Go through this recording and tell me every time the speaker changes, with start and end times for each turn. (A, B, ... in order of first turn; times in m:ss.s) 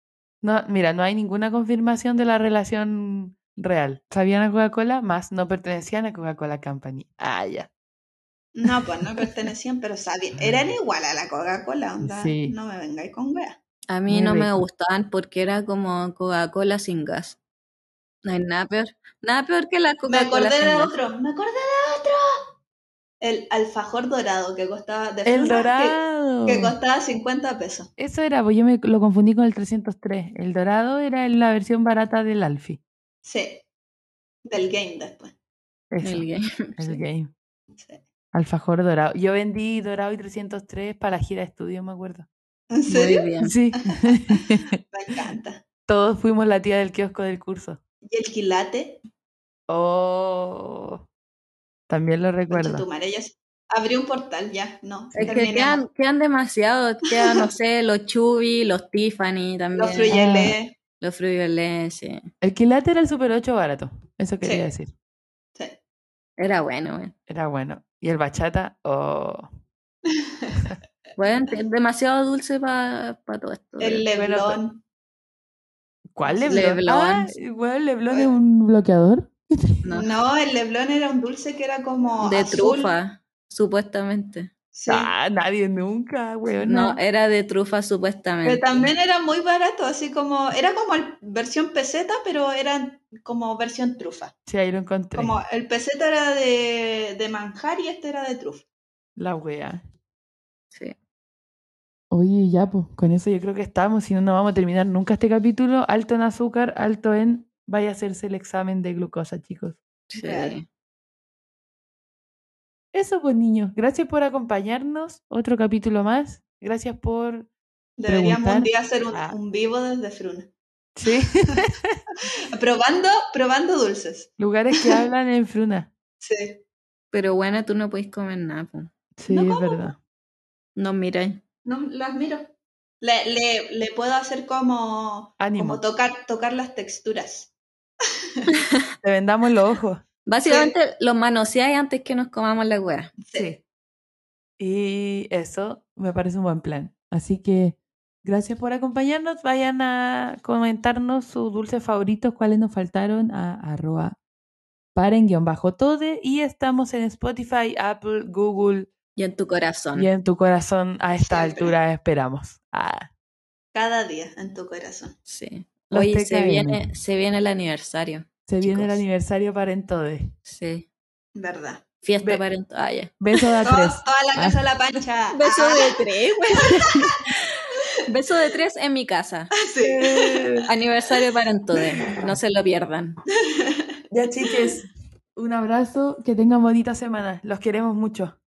0:00.4-0:07.7 A
0:08.5-0:13.6 B
0:12.0-0:12.5 A
0:13.9-0:17.4 C
0:14.1-0:14.6 A
0:18.2-0:20.9 C
0:20.1-0:22.2 B
0:23.2-0:27.9 B
0:25.2-0:26.8 A
0:28.0-0:32.8 A
0:33.2-0:33.6 B
0:34.4-0:35.3 B
0:35.9-0:36.3 A
0:36.0-0:37.0 C
0:36.8-0:37.3 A
0:37.8-0:38.0 B
0:38.3-0:42.3 A
0:42.7-0:43.3 B
0:42.9-0:43.5 C
0:43.4-0:44.8 A
0:44.9-0:45.6 B
0:45.9-0:47.8 A
0:48.0-0:49.0 B
0:49.7-0:51.0 A
0:51.9-0:52.8 A
0:52.5-0:55.8 B
0:55.1-0:55.4 A
0:55.2-1:00.1 C
0:59.7-1:00.8 B
1:00.1-1:00.6 A
1:01.0-1:02.3 C
1:02.4-1:04.9 A
1:04.4-1:04.7 B
1:06.4-1:07.1 C
1:07.3-1:09.5 A
1:10.1-1:10.5 B
1:11.2-1:14.0 C
1:13.8-1:14.8 B
1:14.1-1:14.6 A
1:16.1-1:19.3 A
1:16.2-1:16.6 B
1:16.5-1:17.3 C
1:19.9-1:22.9 B
1:22.2-1:24.5 C
1:24.7-1:25.1 B
1:24.9-1:27.0 A
1:26.6-1:28.9 C
1:28.4-1:34.3 B
1:34.5-1:35.4 A
1:35.1-1:38.6 B
1:39.2-1:39.8 A
1:42.1-1:49.8 A
1:50.1-1:50.6 C
1:50.2-1:50.5 B
1:52.9-1:57.5 A
1:58.0-2:00.5 B
1:58.1-1:59.4 A
2:01.0-2:02.0 A
2:02.5-2:04.3 B
2:04.4-2:05.9 A
2:06.2-2:06.6 B
2:07.1-2:08.9 C
2:09.2-2:10.0 A
2:09.3-2:09.9 B
2:10.8-2:11.4 C
2:11.6-2:17.5 B
2:15.4-2:15.8 A
2:19.0-2:20.0 A
2:20.2-2:23.1 C
2:20.4-2:20.7 B
2:23.2-2:23.5 B
2:23.3-2:23.6 A
2:24.6-2:34.2 A
2:34.9-2:38.9 A
2:39.2-2:40.1 C
2:39.9-2:43.1 A
2:41.2-2:41.7 B
2:43.7-2:45.2 B
2:45.3-2:49.0 C
2:45.9-2:46.9 A
2:48.5-2:50.3 A
2:50.5-2:50.8 C
2:51.4-2:51.8 B
2:52.0-2:53.5 C
2:53.2-2:54.6 A
2:53.6-2:56.0 B
2:55.3-2:59.5 C
2:56.6-2:57.2 B
2:59.6-3:00.5 B
2:59.8-3:00.7 A
3:00.7-3:03.2 C
3:03.4-3:03.9 B
3:04.1-3:08.4 A
3:04.4-3:04.7 B